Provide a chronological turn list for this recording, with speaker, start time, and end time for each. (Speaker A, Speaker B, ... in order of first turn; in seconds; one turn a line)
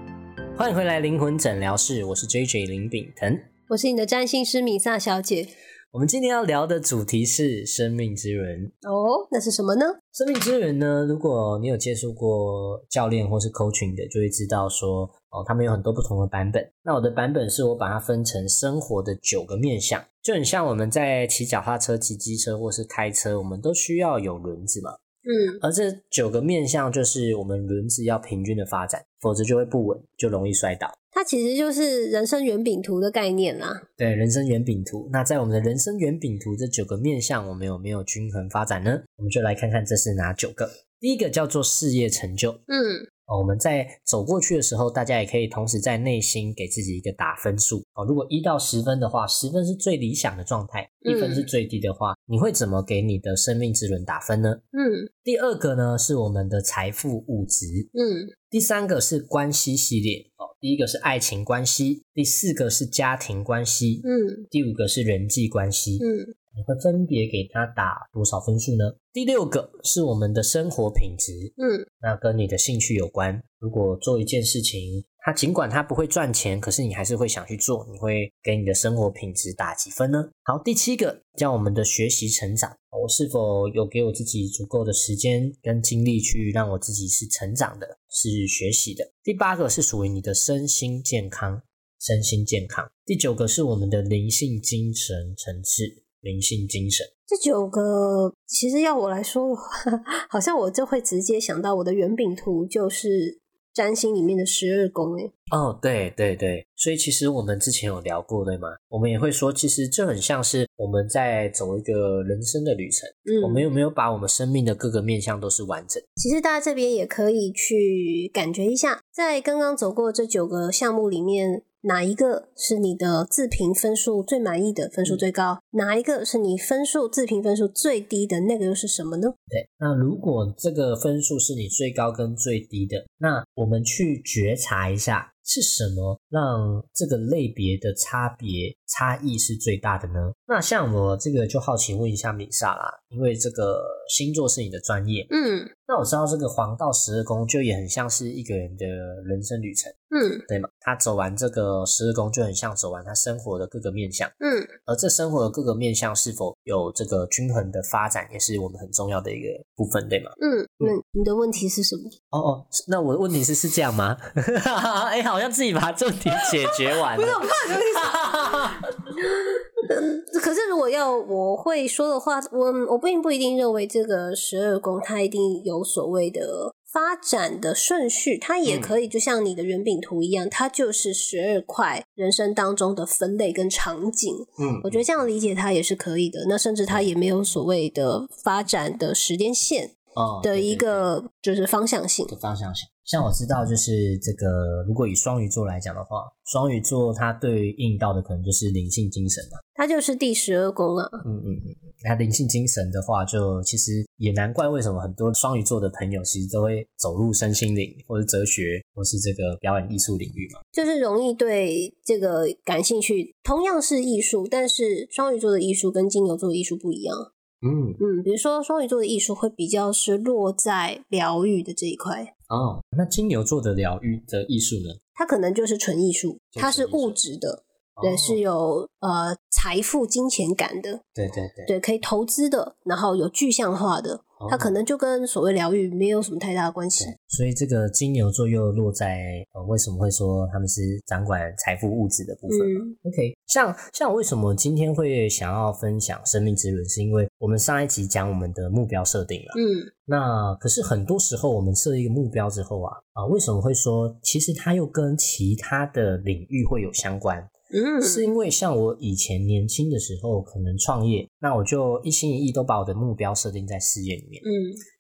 Speaker A: 0.6-3.5
Speaker B: 3.7-5.5
Speaker A: 5.9-8.7
Speaker B: 8.8-10.0
Speaker A: 10.1-25.0
Speaker B: 25.3-25.6
Speaker A: 25.6-30.9
Speaker B: 31.1-33.8
Speaker A: 34.0-42.6
Speaker B: 42.7-43.1
Speaker A: 43.3-54.6
Speaker B: 51.0-51.4
Speaker B: 54.7-55.1
Speaker A: 55.2-57.9
Speaker B: 57.9-58.3
Speaker A: 58.5-97.1
Speaker B: 64.0-64.5
Speaker B: 66.0-66.3
Speaker B: 71.6-71.9
Speaker B: 97.3-105.3
Speaker A: 105.5-116.0
Speaker B: 113.3-113.7
Speaker B: 116.2-129.3
Speaker A: 129.5-145.3
Speaker B: 145.3-145.7
Speaker A: 145.9-150.0
Speaker B: 150.1-150.4
Speaker A: 150.5-154.3
Speaker B: 154.4-154.7
Speaker A: 154.9-160.9
Speaker B: 160.4-162.1
Speaker A: 162.3-168.8
Speaker B: 167.2-168.2
Speaker B: 169.3-192.3
Speaker A: 178.7-178.9
Speaker A: 184.6-185.1
Speaker A: 190.2-191.1
Speaker A: 192.3-199.6
Speaker B: 199.8-201.2
Speaker A: 201.2-210.6
Speaker B: 210.7-217.3
Speaker A: 217.6-218.0
Speaker B: 218.0-222.3
Speaker A: 222.5-225.0
Speaker B: 225.2-231.0
Speaker A: 226.5-227.2
Speaker A: 228.0-228.4
Speaker A: 231.2-231.7
Speaker B: 231.7-237.2
Speaker A: 234.4-234.8
Speaker A: 237.0-257.5
Speaker B: 242.5-242.9
Speaker B: 249.5-249.9
Speaker B: 257.7-258.3
Speaker A: 258.0-264.4
Speaker B: 264.4-264.8